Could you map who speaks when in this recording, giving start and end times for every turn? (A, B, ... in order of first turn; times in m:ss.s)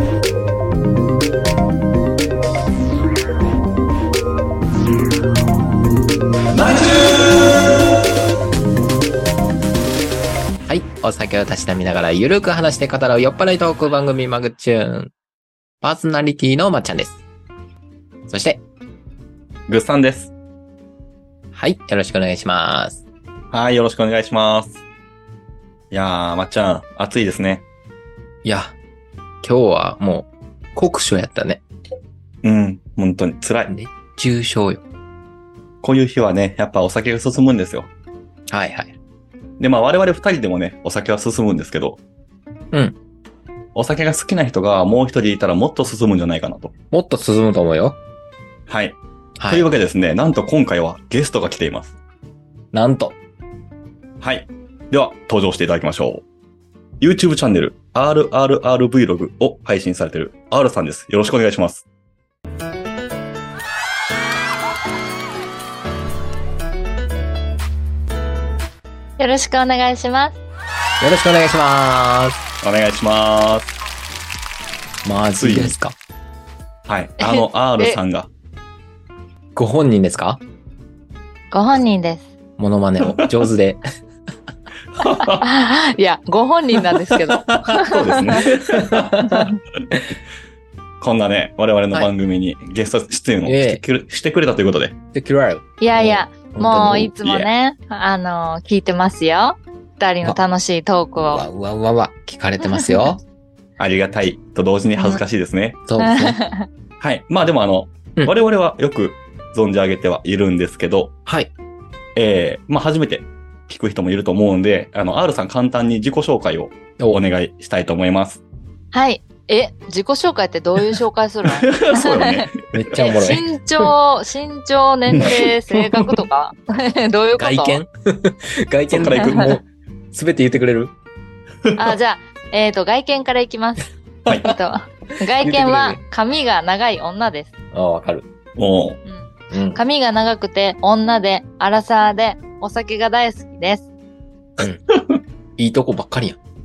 0:06.5-0:07.4 A
0:10.7-0:15.1 B
0:15.8-0:17.2 B
0:18.3-0:18.6 B
0:19.7-0:20.3 A
0:21.5-0:23.0 B
0:23.5-0:24.8 A
0:25.9-0:27.6 A
0:28.4-0:28.8 B
0:29.4-0:31.6 B
0:32.4-0:33.7 A
0:33.7-0:34.8 B
0:35.8-0:37.9 A
0:38.5-0:39.0 B
0:39.6-0:42.0 A
0:42.7-0:43.0 B
0:43.7-0:46.7 A
0:46.9-0:48.0 B
0:48.7-0:49.0 A
0:49.4-0:49.7 B
0:49.5-0:51.9 A
0:52.7-0:53.2 B
0:54.2-0:56.2 A
0:57.0-1:01.8 A
1:09.2-1:10.4 C
1:11.0-1:12.4 B
1:12.6-1:13.7 A
1:15.0-1:16.0 B
1:15.4-1:15.7 A
1:16.9-1:18.3 A
1:17.2-1:18.0 C
1:19.6-1:20.4 B
1:21.5-1:22.2 C
1:22.6-1:23.8 B
1:24.9-1:25.5 A
1:25.4-1:28.4 C
1:27.8-1:29.1 A
1:28.4-1:30.1 B
1:29.3-1:29.6 C
1:31.0-1:35.0 A
1:33.4-1:33.8 B
1:35.1-1:37.1 B
1:35.8-1:41.4 C
1:37.2-1:37.5 A
1:41.2-1:43.2 B
1:42.6-1:43.1 C
1:43.8-1:45.8 A
1:45.9-1:46.4 B
1:46.0-1:46.7 C
1:47.0-1:51.1 A
1:51.2-1:51.5 B
1:52.1-1:58.4 A
1:58.9-2:02.4 C
2:01.5-2:03.9 A
2:02.7-2:03.4 B
2:03.0-2:07.8 C
2:05.1-2:06.2 A
2:07.4-2:10.9 B
2:08.9-2:09.6 A
2:09.1-2:09.4 C
2:11.6-2:12.0 A
2:11.8-2:13.9 C
2:14.4-2:17.5 C
2:15.2-2:16.0 B
2:17.7-2:18.2 B
2:18.6-2:19.0 A
2:19.0-2:23.9 C
2:19.5-2:19.8 B
2:24.9-2:25.2 A
2:25.6-2:26.4 B